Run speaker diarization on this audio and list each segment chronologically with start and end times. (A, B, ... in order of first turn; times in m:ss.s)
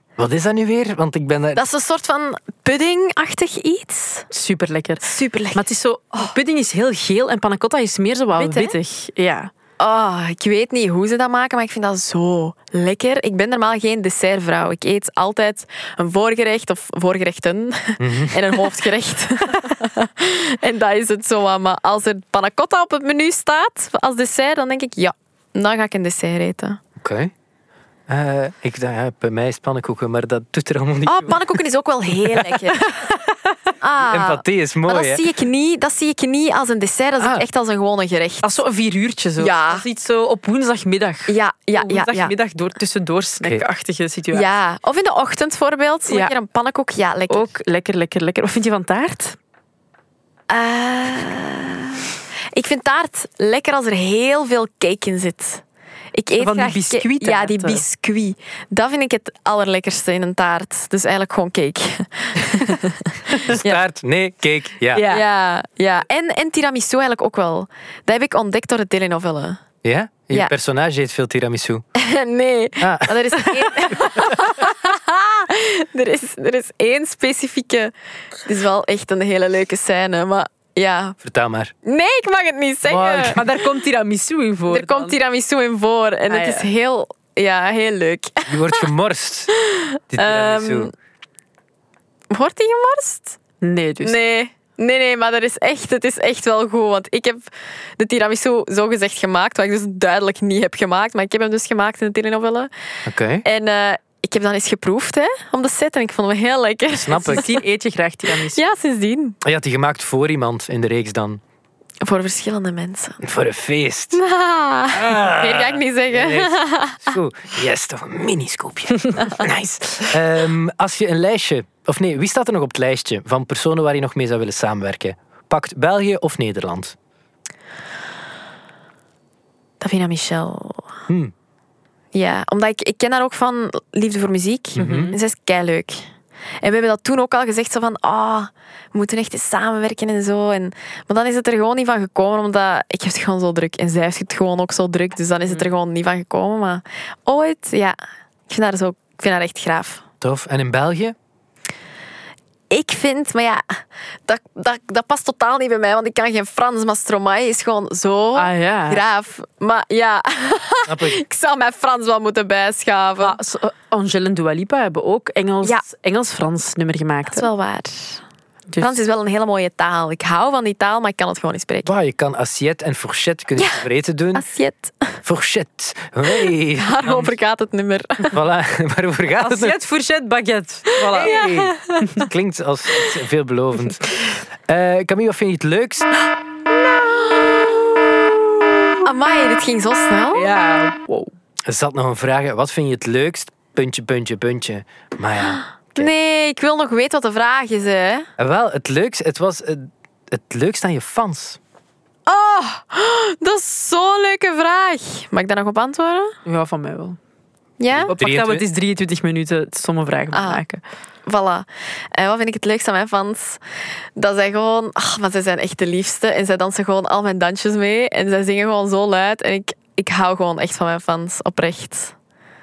0:00.2-0:01.6 A
0:01.6-0:04.3 B
0:04.3-0:09.5 C
0:05.0-0:06.3 B
0:08.4-0:08.8 B
0:09.8-0:26.8 B
0:18.0-0:18.4 A
0:27.0-0:27.3 A
0:28.1-0:31.4 A
0:31.1-0:32.9 B
0:32.8-0:33.6 C
0:33.8-0:38.6 B
0:34.0-0:35.2 A
0:38.4-0:44.5 C
0:39.4-0:39.8 B
0:41.3-0:42.3 B
0:44.3-0:47.5 B
0:47.3-0:49.4 C
0:50.5-0:55.6 B
0:56.1-1:03.8 B
0:56.4-0:57.8 C
1:03.5-1:05.0 A
1:04.9-1:05.2 C
1:05.1-1:09.6 B
1:09.8-1:11.8 A
1:12.0-1:17.9 B
1:12.8-1:13.2 A
1:13.9-1:14.4 A
1:18.4-1:21.2 B
1:21.2-1:21.7 A
1:21.8-1:23.4 B
1:22.9-1:23.4 A
1:23.2-1:25.2 C
1:24.7-1:28.9 B
1:26.3-1:26.7 C
1:28.5-1:29.5 A
1:29.6-1:30.9 B
1:30.1-1:30.9 A
1:32.3-1:33.4 B
1:33.6-1:34.2 C
1:34.0-1:42.7 B
1:43.1-1:43.4 A
1:43.4-1:47.6 B
1:46.9-1:47.4 A
1:47.3-1:48.6 C
1:48.5-1:49.4 B
1:49.4-1:51.4 A
1:52.0-1:53.2 B
1:53.2-1:54.2 A
1:54.1-1:57.1 B
1:54.9-2:07.0 A
2:09.8-2:10.9 B
2:12.1-2:16.1 B
2:14.8-2:15.2 A
2:14.8-2:15.1 C
2:16.6-2:28.0 B
2:28.5-2:30.0 B
2:30.2-2:31.2 A
2:32.7-2:43.4 B
2:38.4-2:39.0 C
2:40.9-2:41.2 A
2:43.2-2:47.5 C
2:47.3-2:48.2 B
2:48.7-2:49.0 C
2:48.8-2:51.9 B
2:51.8-2:54.5 A
2:53.6-2:53.8 B
2:54.3-2:55.2 B
2:55.2-2:57.3 A
2:56.3-2:58.4 B
2:58.3-2:59.8 A
2:59.4-3:01.4 C
3:01.0-3:02.1 B
3:01.1-3:06.1 A
3:09.0-3:10.5 B
3:10.3-3:11.3 C
3:11.7-3:16.1 A
3:15.9-3:18.3 B
3:18.4-3:21.6 A
3:22.3-3:26.4 B
3:26.5-3:27.2 C
3:27.8-3:28.1 B
3:27.9-3:28.6 A
3:28.1-3:30.8 C
3:30.3-3:30.6 B
3:31.3-3:33.6 B
3:34.2-3:42.2 B